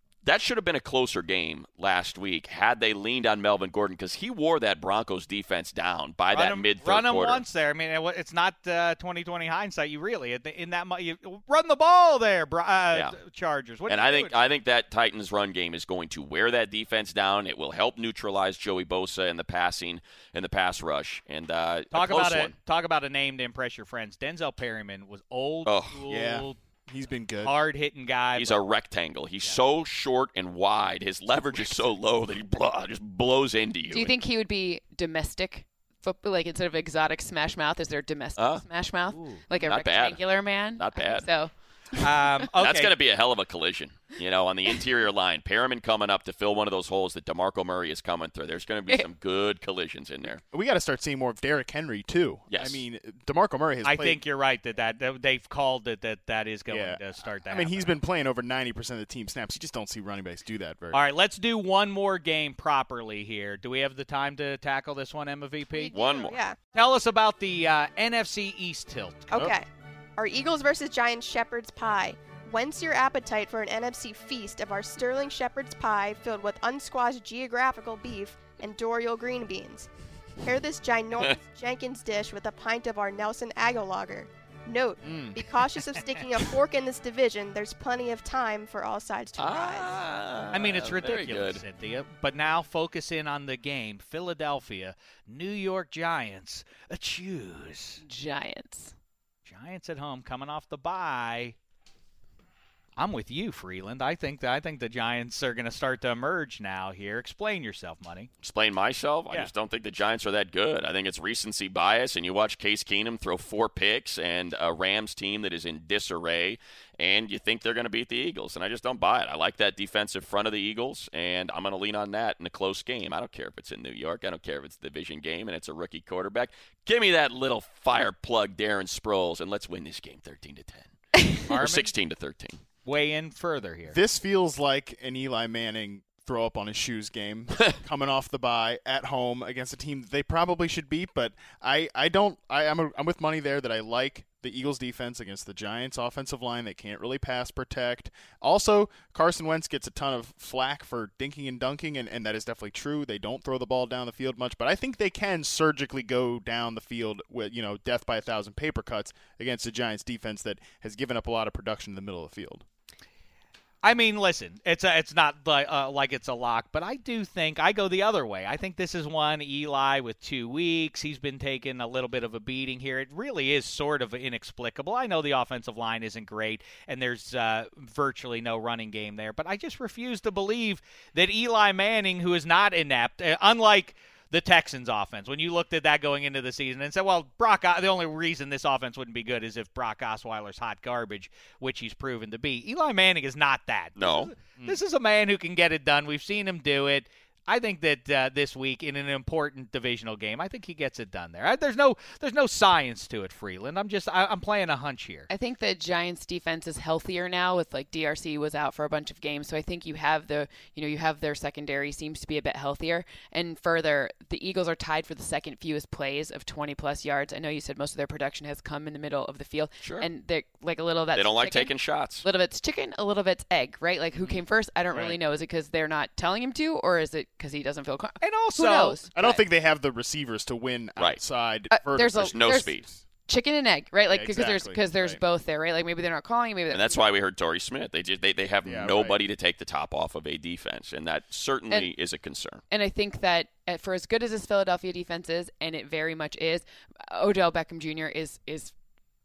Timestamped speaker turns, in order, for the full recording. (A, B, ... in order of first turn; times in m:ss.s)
0:00.2-0:07.4 A
0:06.3-0:14.3 B
0:13.9-0:22.5 A
0:21.9-0:26.6 B
0:25.6-0:26.0 A
0:26.1-0:27.6 C
0:27.4-0:28.6 B
0:28.4-0:34.2 A
0:33.9-0:42.0 D
0:38.4-0:38.6 A
0:39.1-0:39.4 B
0:39.6-0:40.2 A
0:40.8-0:41.3 A
0:42.0-0:42.9 B
0:42.6-0:50.4 A
0:50.5-0:54.2 C
0:52.5-0:52.8 A
0:53.8-0:58.0 B
0:56.7-1:01.0 C
1:00.9-1:05.9 B
1:05.7-1:06.6 E
1:05.9-1:06.4 A
1:06.7-1:09.5 B
1:09.3-1:19.9 E
1:20.4-1:30.0 E
1:25.0-1:25.4 C
1:29.4-1:31.6 A
1:30.5-1:38.0 B
1:38.0-1:38.9 D
1:39.4-1:41.6 B
1:43.0-1:48.3 B
1:48.4-2:10.9 A
2:11.4-2:12.6 A
2:11.5-2:11.9 B
2:12.8-2:14.0 B
2:13.9-2:42.6 C
2:43.8-3:25.3 B
3:14.0-3:14.3 A
3:25.3-3:41.7 D
3:39.8-3:40.1 A
3:41.1-3:42.2 A
3:42.2-3:49.2 D
3:44.9-3:45.2 C
3:48.2-3:49.0 B
3:49.1-3:52.7 C
3:51.7-3:52.7 D
3:52.2-3:52.8 A
3:53.3-3:57.0 D
3:54.1-3:55.2 C
3:56.7-4:02.6 A
3:58.6-3:59.2 C
4:02.7-4:08.7 D